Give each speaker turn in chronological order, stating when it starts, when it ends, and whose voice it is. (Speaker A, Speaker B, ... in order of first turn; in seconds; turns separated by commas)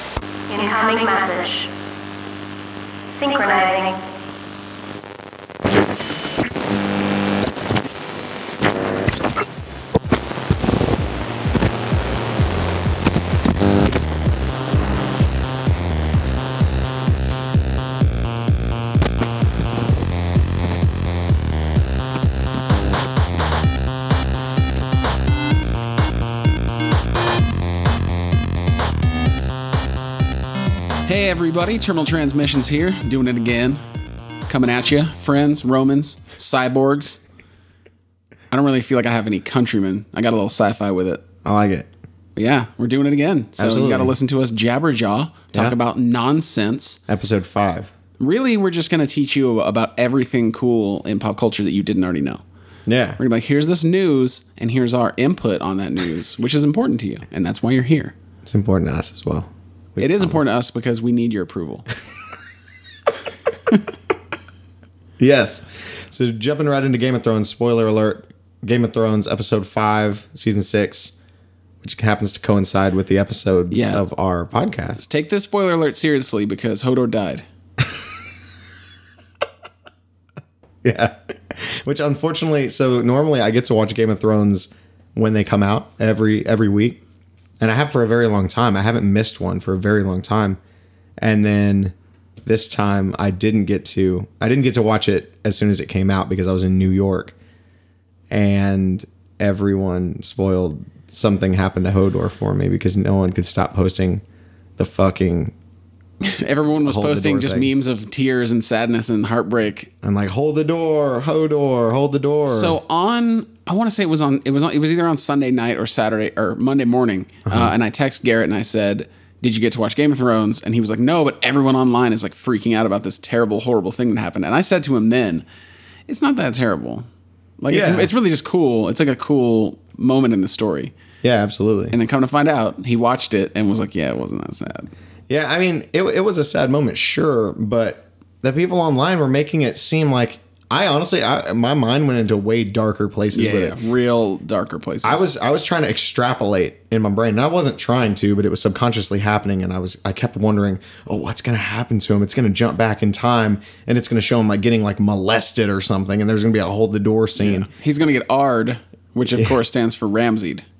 Speaker A: 0.5-1.7, Speaker A: 3.1-4.1, Speaker B: 31.1-33.8, Speaker B: 34.5-37.2, Speaker B: 38.5-41.2, Speaker C: 41.4-41.9, Speaker B: 42.4-47.0, Speaker C: 43.6-44.1, Speaker C: 47.1-47.9, Speaker B: 48.2-52.4, Speaker C: 52.9-53.2, Speaker B: 53.2-58.1, Speaker C: 58.5-60.4, Speaker B: 60.0-61.9, Speaker C: 65.2-71.1, Speaker C: 71.8-75.0, Speaker B: 73.7-74.0, Speaker B: 75.0-77.5, Speaker C: 80.8-87.0, Speaker C: 87.6-90.6, Speaker C: 91.2-97.3, Speaker C: 98.3-104.2, Speaker C: 104.8-105.5, Speaker B: 106.2-109.9, Speaker C: 106.8-107.7, Speaker C: 110.0-112.8, Speaker B: 112.5-125.5, Speaker C: 117.5-117.7, Speaker B: 126.1-127.0, Speaker B: 127.6-130.9, Speaker C: 127.7-128.1, Speaker C: 131.2-131.9, Speaker B: 131.9-134.9, Speaker C: 135.3-143.8, Speaker B: 143.3-145.3, Speaker C: 145.0-157.7, Speaker B: 157.4-160.7